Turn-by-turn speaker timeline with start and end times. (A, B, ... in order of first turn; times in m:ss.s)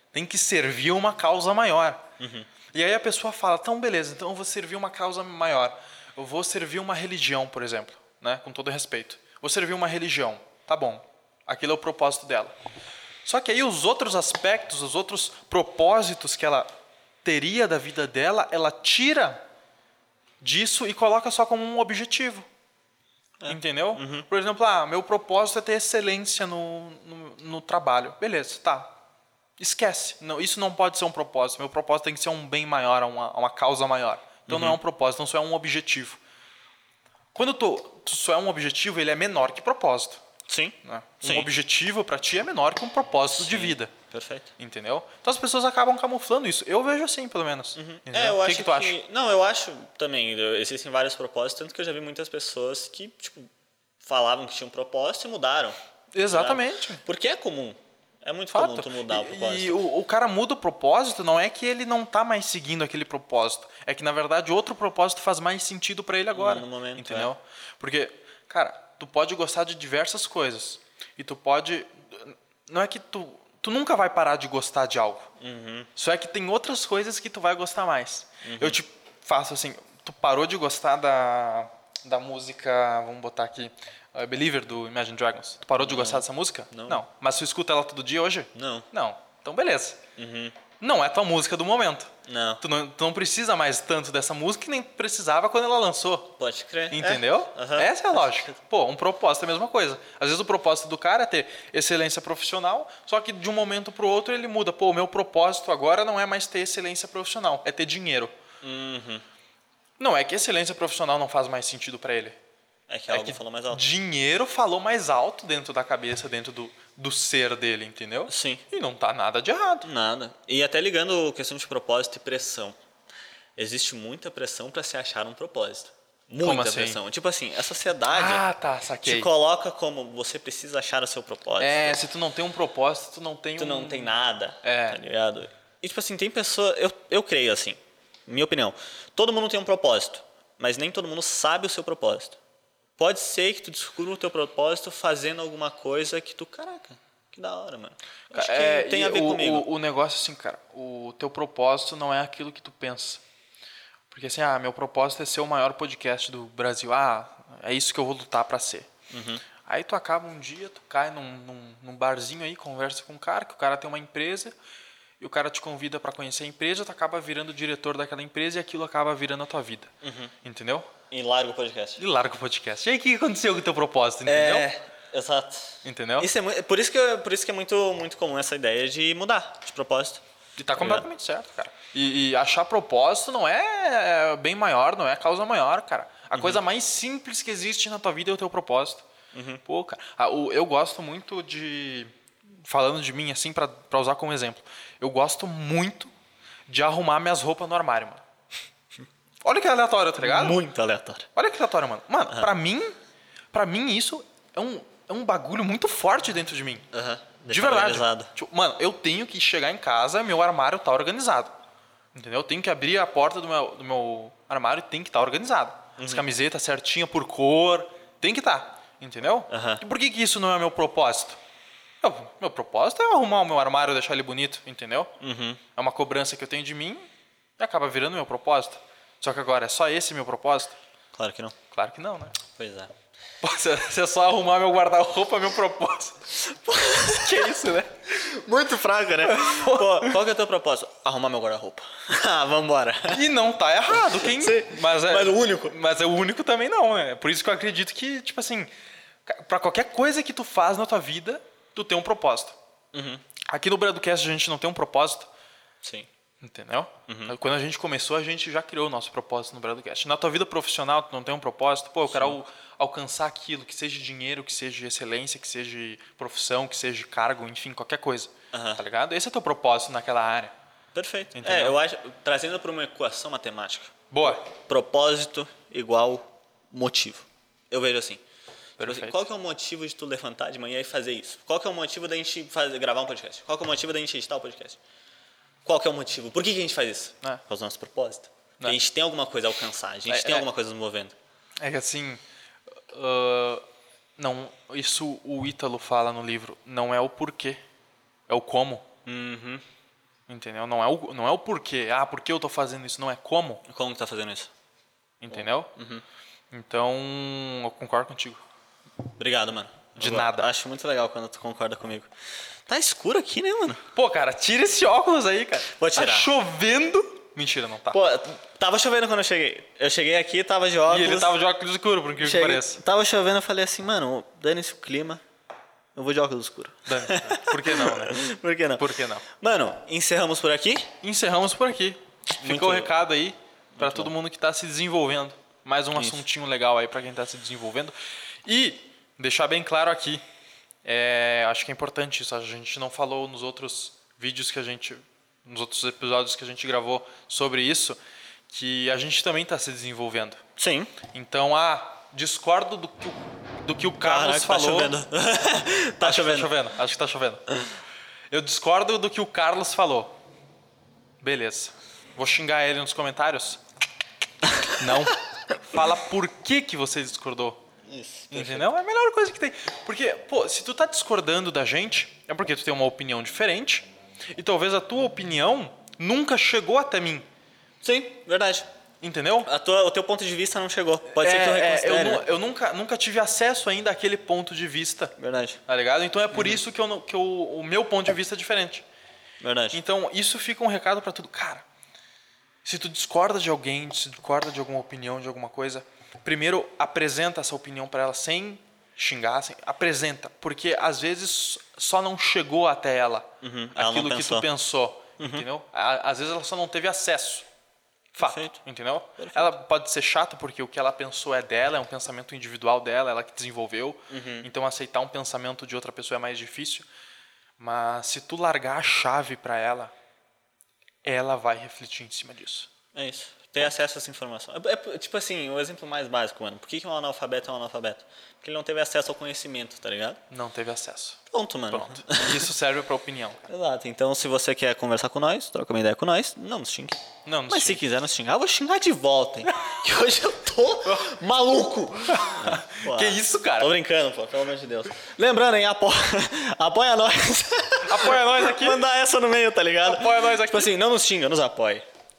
0:00.1-0:02.0 A
0:02.2-0:02.5 B
0:02.7-0:12.5 A
0:13.2-0:16.7 A
0:17.2-0:19.4 A
0:20.4-0:22.5 A
0:23.4-0:24.3 B
0:23.5-0:28.9 A
0:29.6-0:36.2 A
0:34.5-0:34.8 B
0:37.3-0:40.2 A
0:40.5-0:41.5 B
0:40.8-0:43.9 A
0:43.3-0:44.5 B
0:44.6-0:49.0 A
0:47.7-0:53.5 B
0:54.0-0:55.8 B
0:56.1-0:57.0 A
0:56.3-0:59.8 B
0:58.5-1:15.3 A
1:06.3-1:07.3 B
1:15.4-1:15.9 B
1:16.0-1:30.0 A
1:18.4-1:18.8 B
1:25.8-1:27.0 B
1:28.5-1:28.9 B
1:30.2-1:30.6 B
1:30.8-1:36.4 A
1:32.2-1:32.6 B
1:36.4-1:37.9 B
1:36.9-1:48.3 A
1:48.6-1:49.2 B
1:50.0-1:52.4 A
1:52.9-1:53.8 B
1:53.1-1:59.9 A
1:58.3-1:58.6 B
1:59.8-2:02.8 B
2:03.6-2:08.4 B
2:06.4-2:07.0 A
2:08.1-2:09.3 A
2:09.0-2:12.0 B
2:11.6-2:15.0 A
2:13.6-2:22.4 B
2:23.0-2:29.7 B
2:28.3-2:33.2 A
2:34.1-2:38.9 A
2:39.1-2:39.4 B
2:39.6-2:44.5 A
2:45.2-2:49.9 A
2:50.0-2:50.3 B
2:50.4-2:50.9 A
2:51.1-2:52.0 B
2:52.0-2:54.7 A
2:54.2-3:00.2 B
2:55.8-2:56.3 A
3:00.6-3:09.1 A
3:00.8-3:01.0 B
3:06.3-3:06.6 B
3:09.3-3:09.6 B
3:09.6-3:12.1 A
3:12.7-3:16.1 A
3:16.7-3:18.2 A
3:19.4-3:20.6 A
3:20.2-3:21.3 B
3:21.3-3:23.0 A
3:23.5-3:26.8 A
3:26.9-3:28.3 B
3:27.5-3:31.5 A
3:32.1-3:41.4 A
3:36.0-3:36.2 B
3:39.5-3:39.8 B
3:42.0-3:45.1 A
3:45.2-3:45.6 B
3:45.7-3:50.7 A
3:51.1-3:51.5 B
3:51.7-3:52.4 A
3:52.5-3:52.9 B
3:53.4-3:56.4 A
3:56.4-3:57.5 B
3:57.1-3:58.0 A
3:58.1-4:03.2 B
3:59.2-4:00.2 A
4:03.1-4:08.7 A
4:04.1-4:05.8 B
4:09.2-4:12.6 A
4:12.9-4:13.2 B
4:13.5-4:15.3 A
4:15.8-4:16.1 B
4:16.4-4:30.5 A
4:17.1-4:17.3 B
4:22.1-4:22.4 B
4:28.5-4:28.8 B
4:30.9-4:38.2 B
4:31.3-4:31.8 A
4:34.1-4:34.4 A
4:38.8-4:39.2 A
4:38.8-4:44.8 B
4:45.6-4:51.1 B
4:50.1-4:50.4 A
4:51.6-4:52.2 A
4:52.9-4:53.6 A
4:54.2-4:57.6 A
4:58.3-4:58.9 A
4:59.0-4:59.6 B
5:00.3-5:03.6 A
5:03.7-5:04.5 B
5:05.2-5:05.7 A
5:05.3-5:06.0 B
5:06.5-5:08.4 A
5:09.2-5:12.1 B
5:10.0-5:10.5 A
5:12.7-5:13.8 B
5:13.9-5:18.0 A
5:15.8-5:16.3 B
5:17.9-5:21.4 B
5:20.9-5:22.8 A
5:22.2-5:25.2 B
5:25.9-5:30.9 B
5:26.9-5:28.2 A
5:28.8-5:29.2 A
5:31.0-5:40.2 A
5:32.4-5:32.9 B
5:33.8-5:34.1 B
5:35.9-5:36.2 B
5:40.8-5:48.0 A
5:48.5-5:50.4 A
5:50.6-5:51.0 B
5:51.1-5:55.0 A
5:54.0-5:56.5 B
5:56.0-5:57.6 A
5:58.3-6:00.1 A
6:01.2-6:03.6 A
6:04.4-6:05.1 B
6:04.7-6:07.6 A
6:07.8-6:08.7 B
6:08.3-6:17.2 A
6:17.8-6:18.7 B
6:19.0-6:19.5 A
6:19.4-6:22.2 B
6:21.1-6:25.1 A
6:25.2-6:25.6 B
6:25.7-6:28.8 A
6:26.3-6:26.6 B
6:29.4-6:29.8 B
6:29.7-6:31.6 A
6:32.6-6:47.4 A
6:43.4-6:44.5 B
6:45.2-6:45.4 B
6:48.1-6:56.8 A
6:48.2-6:48.6 B
6:49.2-6:49.5 B
6:54.1-6:54.5 B
6:57.6-6:59.9 A
7:01.0-7:02.7 A
7:02.9-7:10.2 B
7:10.3-7:13.4 A
7:11.3-7:12.5 B
7:13.5-7:31.8 B
7:17.2-7:17.8 A
7:19.5-7:19.8 A
7:20.8-7:21.1 A
7:22.1-7:23.7 A
7:27.8-7:28.8 A
7:29.8-7:30.7 A